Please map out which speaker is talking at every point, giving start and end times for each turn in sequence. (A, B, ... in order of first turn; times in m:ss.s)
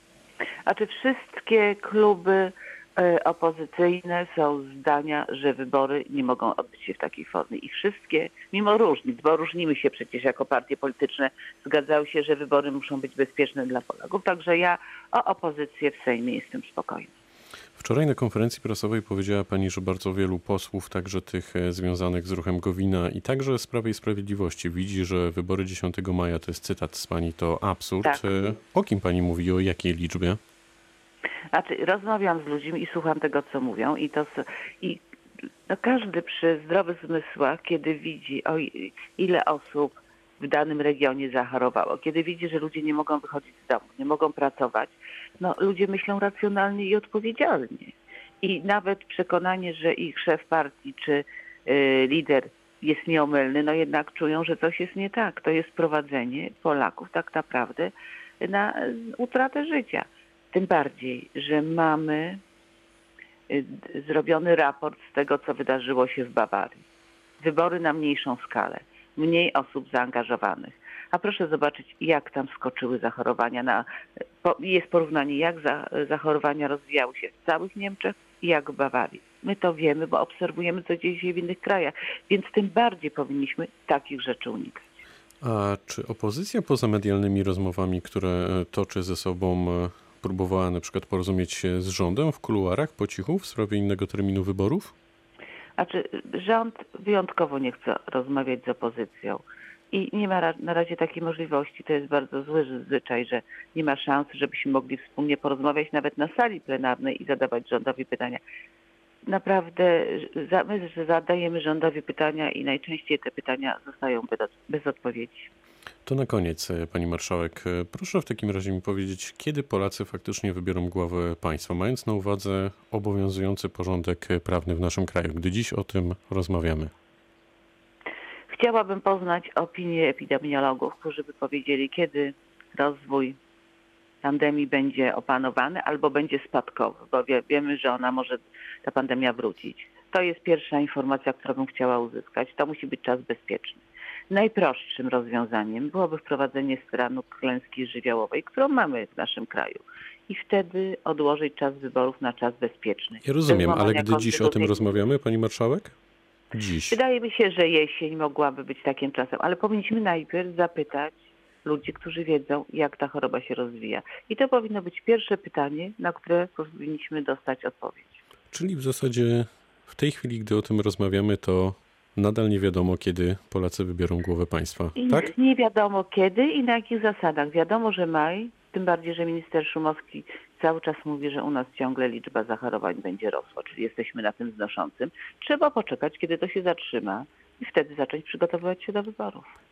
0:00.7-0:17.1 A
0:17.8-0:30.4 B
0:31.5-0:35.0 A
0:35.7-1:02.4 A
1:03.5-1:06.8 A
1:07.4-1:13.9 A
1:14.4-1:25.0 A
1:25.4-1:34.9 B
1:35.8-1:48.4 A
1:49.3-1:55.5 A
1:56.1-2:06.9 B
2:08.5-2:13.4 A
2:14.2-2:34.9 A
2:33.2-2:36.0 B
2:36.5-2:37.0 B
2:36.9-2:48.2 A
2:48.5-2:55.3 B
2:55.0-3:09.5 A